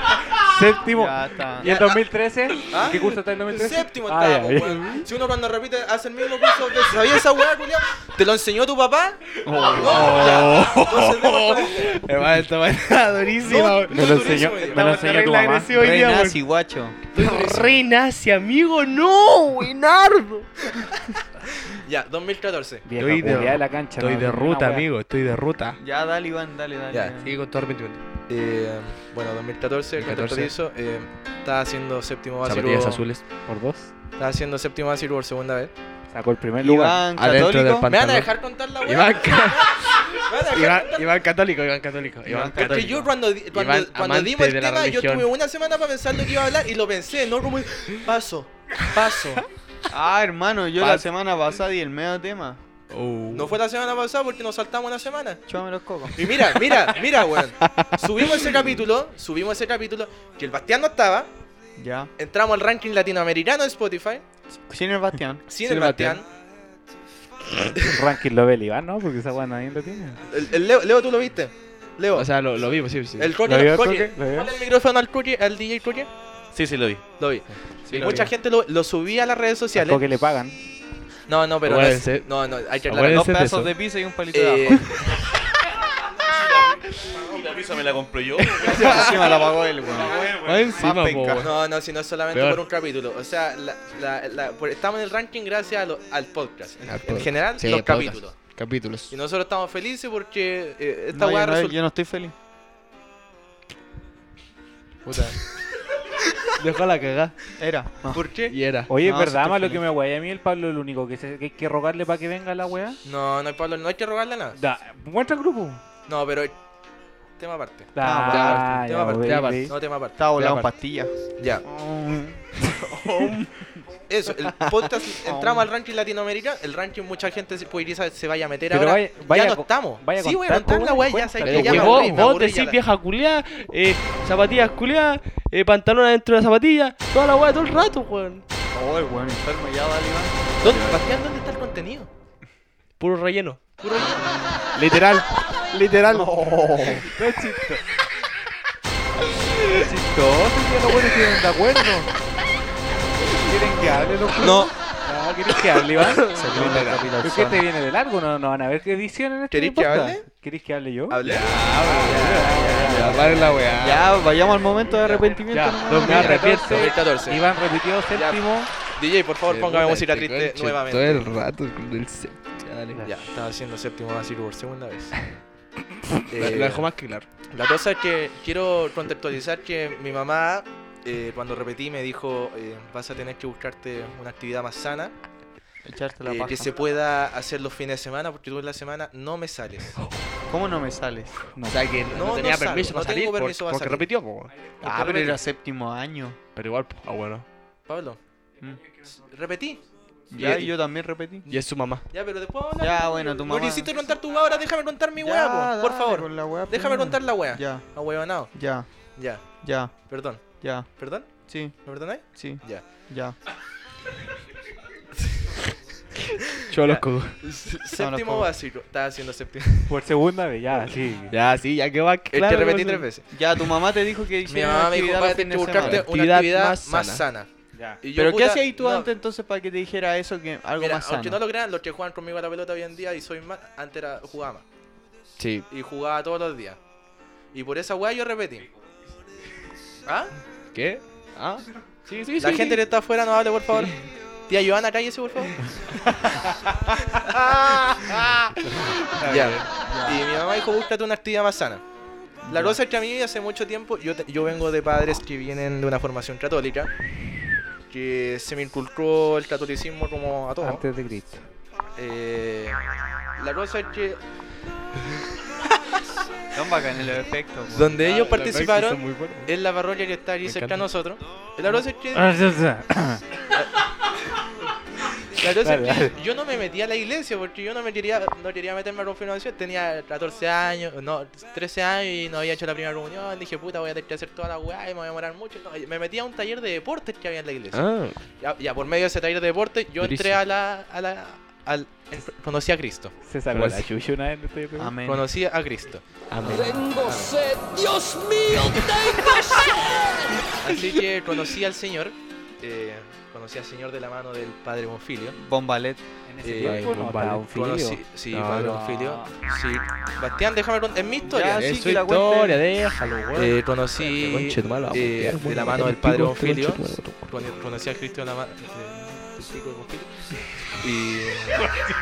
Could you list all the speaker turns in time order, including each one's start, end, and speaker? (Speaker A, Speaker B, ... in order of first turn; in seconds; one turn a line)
Speaker A: 0.3-5.1
Speaker B: 0.9-1.7
Speaker C: 1.6-2.0
Speaker C: 2.7-12.1
Speaker B: 9.4-10.4
Speaker D: 9.6-16.4
Speaker C: 13.4-15.3
Speaker A: 13.9-15.7
Speaker B: 15.7-17.0
Speaker C: 17.1-17.8
Speaker D: 17.1-20.5
Speaker C: 21.7-22.9
Speaker A: 22.9-24.9
Speaker D: 23.0-25.8
Speaker B: 25.8-27.3
Speaker D: 27.2-28.0
Speaker C: 28.3-33.0
Speaker D: 30.0-30.5
Speaker D: 32.4-33.2
Speaker A: 33.5-33.9
Speaker C: 34.2-35.7
Speaker A: 36.1-37.0
Speaker B: 36.6-37.9
Speaker D: 37.2-45.3
Speaker C: 37.9-41.1
Speaker B: 42.3-43.1
Speaker C: 42.5-49.5
Speaker B: 49.9-52.6
Speaker D: 52.9-53.6
Speaker C: 53.3-55.4
Speaker B: 55.5-56.2
Speaker C: 56.2-61.3
Speaker D: 56.2-57.0
Speaker D: 57.7-58.6
Speaker B: 61.8-62.1
Speaker C: 62.2-64.2
Speaker B: 64.7-65.4
Speaker C: 65.5-66.3
Speaker D: 65.6-66.2
Speaker A: 67.8-70.2
Speaker C: 70.3-72.3
Speaker D: 72.1-73.4
Speaker C: 73.2-76.1
Speaker A: 73.4-74.5
Speaker E: 76.5-77.0
Speaker C: 77.2-80.0
Speaker D: 77.9-78.3
Speaker A: 78.0-78.3
Speaker A: 79.8-80.6
Speaker C: 81.3-83.3
Speaker D: 81.7-83.7
Speaker B: 83.0-84.9
Speaker C: 84.3-85.0
Speaker E: 86.2-90.7
Speaker C: 88.6-89.5
Speaker B: 88.6-91.5
Speaker D: 90.3-91.7
Speaker C: 91.4-98.4
Speaker D: 92.3-92.6
Speaker D: 96.8-99.1
Speaker C: 99.1-101.8
Speaker B: 101.1-102.3
Speaker D: 105.0-105.4
Speaker D: 106.6-107.3
Speaker B: 107.6-108.3
Speaker C: 108.1-108.6
Speaker D: 108.5-108.9
Speaker A: 108.9-113.0
Speaker B: 108.9-109.8
Speaker C: 113.0-114.6
Speaker A: 114.5-115.8
Speaker C: 116.1-116.6
Speaker C: 117.4-120.2
Speaker A: 117.9-119.7
Speaker B: 118.0-118.8
Speaker D: 118.3-120.7
Speaker B: 120.2-122.5
Speaker C: 121.4-121.7
Speaker D: 122.7-123.5
Speaker C: 124.1-132.8
Speaker B: 125.2-125.7
Speaker A: 128.7-132.2
Speaker D: 131.4-138.4
Speaker B: 138.7-140.4
Speaker C: 140.6-142.1
Speaker D: 140.6-141.0
Speaker D: 143.0-143.6
Speaker C: 143.8-144.3
Speaker B: 144.0-144.6
Speaker D: 144.7-147.0
Speaker B: 146.1-147.1
Speaker A: 146.9-147.8
Speaker A: 149.7-152.1
Speaker A: 153.3-161.2
Speaker B: 154.3-154.7
Speaker D: 156.0-157.5
Speaker B: 156.3-157.6
Speaker C: 159.5-160.3
Speaker C: 161.1-163.8
Speaker D: 161.2-164.1
Speaker A: 161.9-163.7
Speaker B: 163.8-166.6
Speaker C: 164.9-165.3
Speaker A: 165.5-168.7
Speaker D: 165.9-166.9
Speaker C: 166.0-167.4
Speaker C: 168.1-171.3
Speaker D: 169.5-173.0
Speaker A: 172.9-173.2
Speaker C: 173.0-175.3
Speaker C: 176.3-176.9
Speaker D: 176.3-177.3
Speaker C: 177.5-185.1
Speaker B: 185.8-186.8
Speaker C: 186.2-190.0
Speaker B: 190.5-191.4
Speaker A: 191.6-191.8
Speaker D: 191.7-194.5
Speaker C: 192.1-194.1
Speaker B: 194.8-196.4
Speaker C: 194.8-195.4
Speaker D: 196.6-197.4
Speaker C: 197.9-198.2
Speaker C: 199.2-199.8
Speaker B: 200.3-201.4
Speaker C: 200.4-200.7
Speaker D: 201.5-202.1
Speaker C: 202.1-209.4
Speaker B: 202.8-203.9
Speaker B: 205.2-207.9
Speaker B: 208.5-213.4
Speaker C: 210.0-211.3
Speaker C: 211.8-212.9
Speaker D: 216.7-217.4
Speaker C: 216.8-219.9
Speaker B: 217.9-218.5
Speaker A: 219.9-221.3
Speaker D: 221.3-223.1
Speaker C: 222.3-223.3
Speaker B: 223.3-226.1
Speaker C: 224.5-227.5
Speaker D: 225.8-227.2
Speaker A: 227.7-228.0
Speaker C: 228.0-229.1
Speaker B: 228.1-231.4
Speaker C: 230.8-234.6
Speaker D: 235.4-235.7
Speaker C: 235.7-236.8
Speaker C: 237.5-238.7
Speaker C: 240.1-240.3
Speaker D: 240.7-242.8
Speaker C: 242.4-245.7
Speaker C: 247.0-251.8
Speaker D: 248.9-249.7
Speaker B: 249.9-250.2
Speaker B: 252.4-252.8
Speaker C: 252.4-256.9
Speaker C: 257.9-260.8
Speaker A: 260.6-261.4
Speaker C: 262.0-262.8
Speaker C: 263.4-264.2
Speaker B: 266.5-267.9
Speaker C: 267.7-272.3
Speaker D: 267.8-269.5
Speaker D: 270.4-270.9
Speaker A: 272.1-273.2
Speaker C: 275.3-293.1
Speaker A: 275.6-276.1
Speaker D: 287.7-288.2
Speaker D: 290.0-290.4
Speaker A: 293.2-294.9
Speaker D: 293.5-293.9
Speaker B: 294.8-295.3
Speaker C: 295.1-296.1
Speaker D: 296.3-297.4
Speaker C: 296.9-297.3
Speaker D: 298.4-299.6
Speaker C: 300.6-305.4
Speaker B: 305.3-306.0
Speaker A: 306.3-308.0
Speaker C: 306.4-306.9
Speaker D: 306.6-307.4
Speaker C: 307.5-311.6
Speaker D: 308.3-309.0
Speaker A: 308.6-309.3
Speaker B: 311.2-312.6
Speaker D: 311.5-317.3
Speaker C: 313.4-318.7
Speaker D: 319.4-320.0
Speaker C: 320.8-321.7